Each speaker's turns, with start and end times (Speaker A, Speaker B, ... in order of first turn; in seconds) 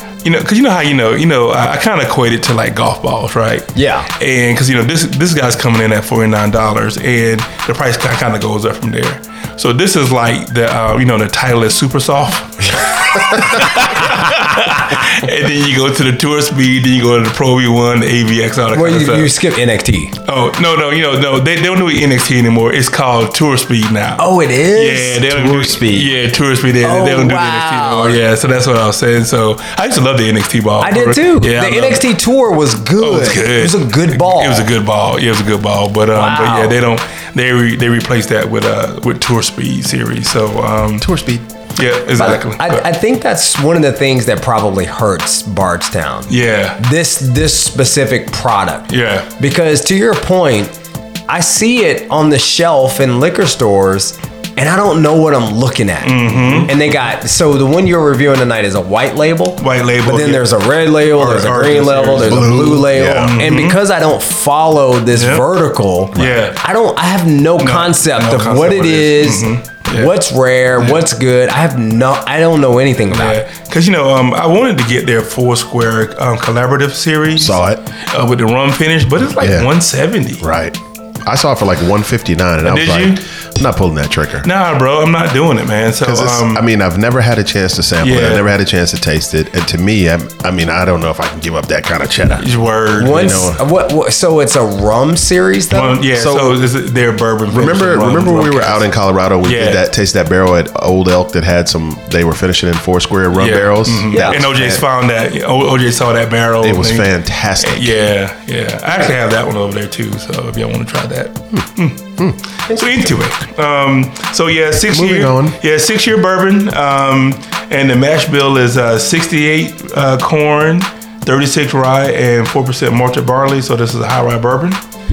Speaker A: 0.2-19.3, 20.2-32.0, 33.0-41.1, 41.8-42.8, 46.3-46.8, 48.9-49.3, 56.0-56.7, 59.6-63.8, 65.1-65.5, 66.1-66.6, 67.6-70.1, 70.8-71.0, 73.1-80.4, 82.6-83.2, 84.4-86.6, 88.0-88.4, 92.4-93.4, 95.7-98.8, 99.4-99.8, 103.3-107.1, 107.6-112.0, 112.7-124.8
Speaker B: 3.8-4.1, 18.7-20.1, 24.2-25.9, 26.8-28.2, 30.8-34.7, 36.1-36.8, 42.2-50.7, 51.3-73.4, 93.0-96.0, 104.1-104.6
Speaker C: 25.3-26.1, 41.0-41.5, 62.2-63.4, 77.4-77.8, 79.4-79.7, 80.4-84.5, 86.0-92.5, 93.0-93.6, 96.1-96.6, 97.5-104.8, 106.6-108.0, 114.9-115.6